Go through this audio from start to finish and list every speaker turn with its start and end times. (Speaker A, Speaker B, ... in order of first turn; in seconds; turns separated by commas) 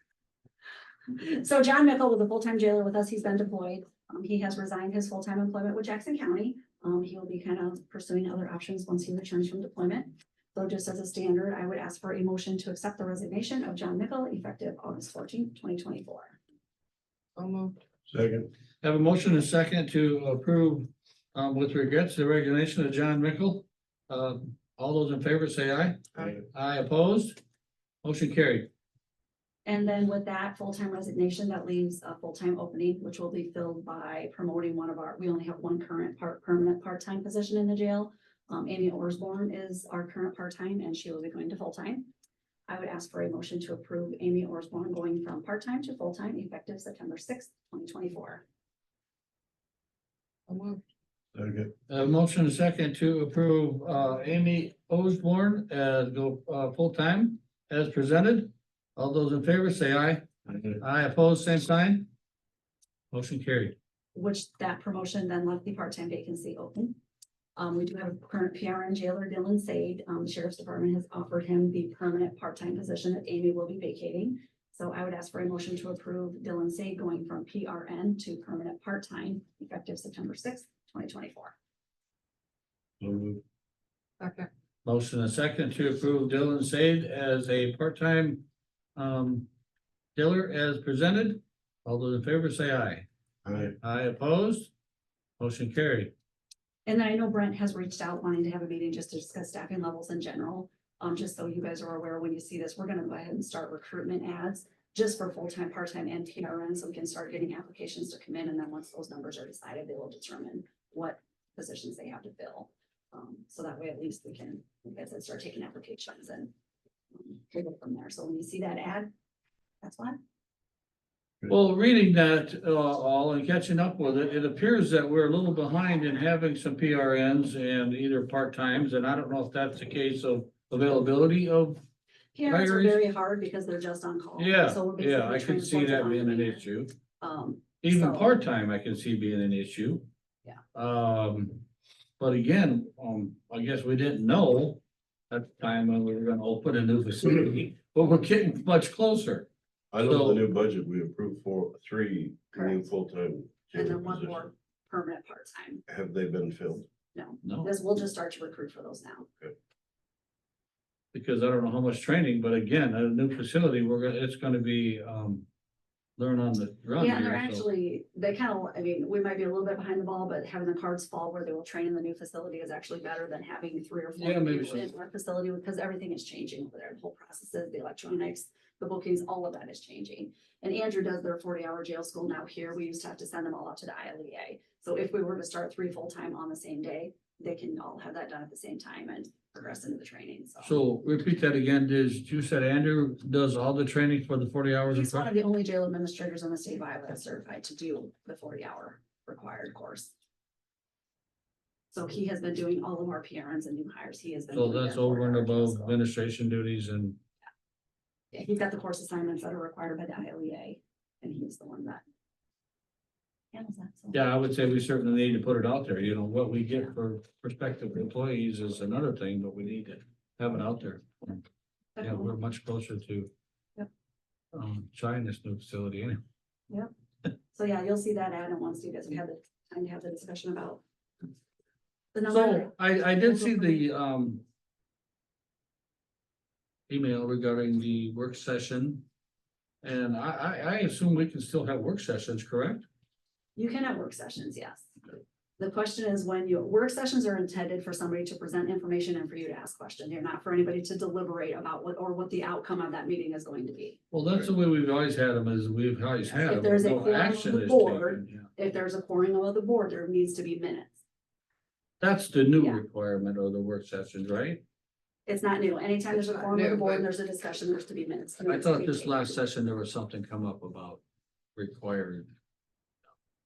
Speaker A: 1.1-16.4, Speaker B: 17.4-17.8, Speaker C: 18.1-18.5, Speaker D: 18.8-26.0, Speaker D: 26.5-27.4, Speaker D: 28.0-28.7, Speaker A: 29.6-42.1, Speaker A: 42.7-48.4, Speaker B: 50.5-50.8, Speaker C: 51.3-51.7, Speaker D: 51.9-60.2, Speaker C: 60.5-60.8, Speaker D: 60.8-62.1, Speaker D: 63.1-63.8, Speaker A: 64.1-67.0, Speaker A: 67.5-81.5, Speaker C: 83.0-83.4, Speaker B: 84.2-84.5, Speaker D: 84.8-89.5, Speaker D: 90.2-93.0, Speaker C: 93.4-93.8, Speaker D: 93.8-94.7, Speaker D: 95.4-96.1, Speaker A: 96.8-116.5, Speaker A: 117.1-119.1, Speaker A: 119.8-120.2, Speaker D: 121.5-131.8, Speaker A: 132.3-136.7, Speaker D: 132.5-133.0, Speaker D: 134.4-136.9, Speaker A: 137.2-138.3, Speaker D: 137.8-140.1, Speaker D: 140.7-141.6, Speaker D: 142.2-149.5, Speaker C: 149.9-154.5, Speaker D: 150.0-150.4, Speaker A: 152.5-152.9, Speaker A: 153.7-155.8, Speaker C: 155.9-156.9, Speaker A: 157.1-159.3, Speaker D: 157.4-157.7, Speaker D: 161.1-165.4, Speaker D: 166.2-167.7, Speaker A: 167.0-190.8, Speaker D: 174.2-174.9, Speaker D: 190.6-195.3, Speaker A: 194.9-200.1, Speaker A: 201.9-206.0, Speaker D: 204.5-207.2, Speaker A: 208.3-212.0, Speaker A: 213.5-214.2, Speaker D: 214.1-221.4, Speaker A: 221.9-222.3, Speaker D: 222.0-223.3, Speaker D: 224.5-226.2, Speaker A: 227.5-230.8, Speaker A: 232.1-233.8, Speaker D: 232.3-234.4, Speaker D: 236.9-239.1, Speaker D: 239.8-242.8, Speaker A: 243.6-244.9, Speaker A: 245.6-254.0, Speaker D: 254.1-258.5, Speaker A: 256.2-260.9, Speaker D: 262.0-264.6, Speaker A: 265.2-269.4, Speaker B: 266.1-267.1, Speaker D: 268.4-271.0, Speaker D: 271.6-272.3